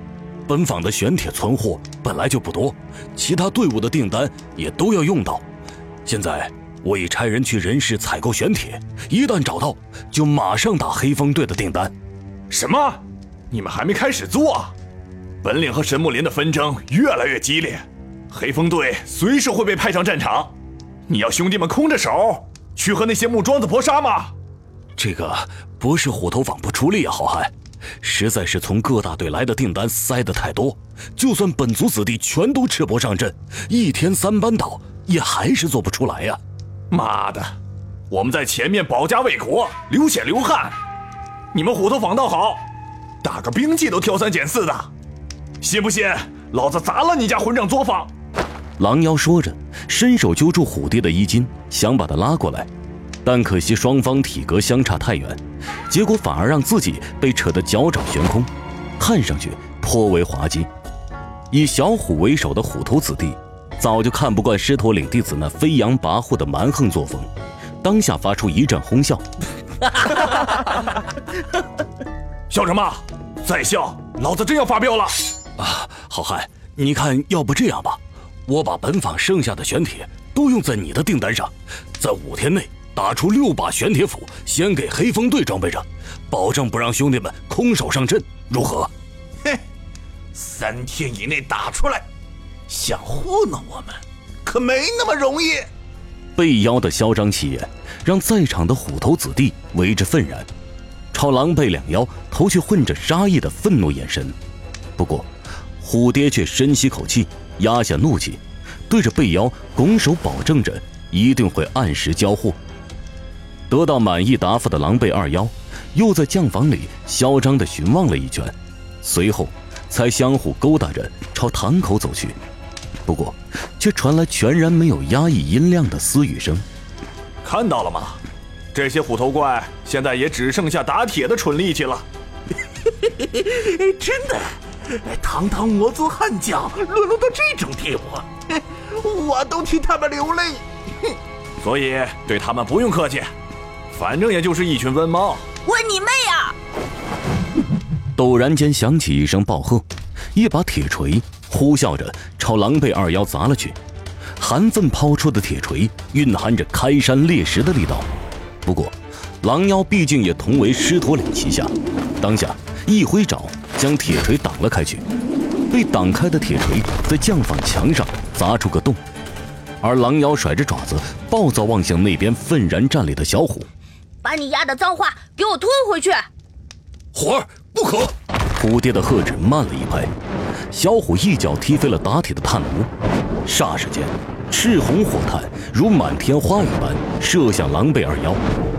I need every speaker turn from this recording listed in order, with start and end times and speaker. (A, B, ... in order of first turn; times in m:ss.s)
0:00.5-0:05.4 A
0:06.0-0:11.9 A
0:12.5-0:14.8 B
0:15.4-0:20.6 B
0:21.1-0:24.3 B
0:25.0-0:36.4 A
0:36.9-0:37.5 B
0:38.1-0:40.8 B
0:41.5-0:42.7 B
0:43.2-0:44.9 B
0:45.6-0:48.1 B
0:48.8-0:52.7 A
0:53.2-1:00.7 A
1:01.5-1:07.3 A
1:07.8-1:09.2 A
1:12.5-1:15.2 B
1:15.6-1:28.9 A
1:30.4-1:32.1 C
1:32.7-1:35.7 C
1:36.4-1:40.5 A
1:41.1-1:44.4 A
1:45.0-1:45.3 A
1:45.8-1:52.6 A
1:53.7-2:02.4 A
2:03.1-2:06.6 A
2:07.4-2:08.2 B
2:08.7-2:12.1 B
2:13.2-2:20.7 C
2:21.6-2:23.3 B
2:23.9-2:25.5 B
2:25.7-2:26.6 D
2:28.2-2:33.8 A
2:34.4-2:38.1 A
2:38.6-2:45.0 A
2:45.7-2:49.0 A
2:49.8-2:53.7 A
2:54.2-2:56.3 D
2:57.2-3:00.1 A
3:00.7-3:02.9 A
3:03.5-3:08.4 A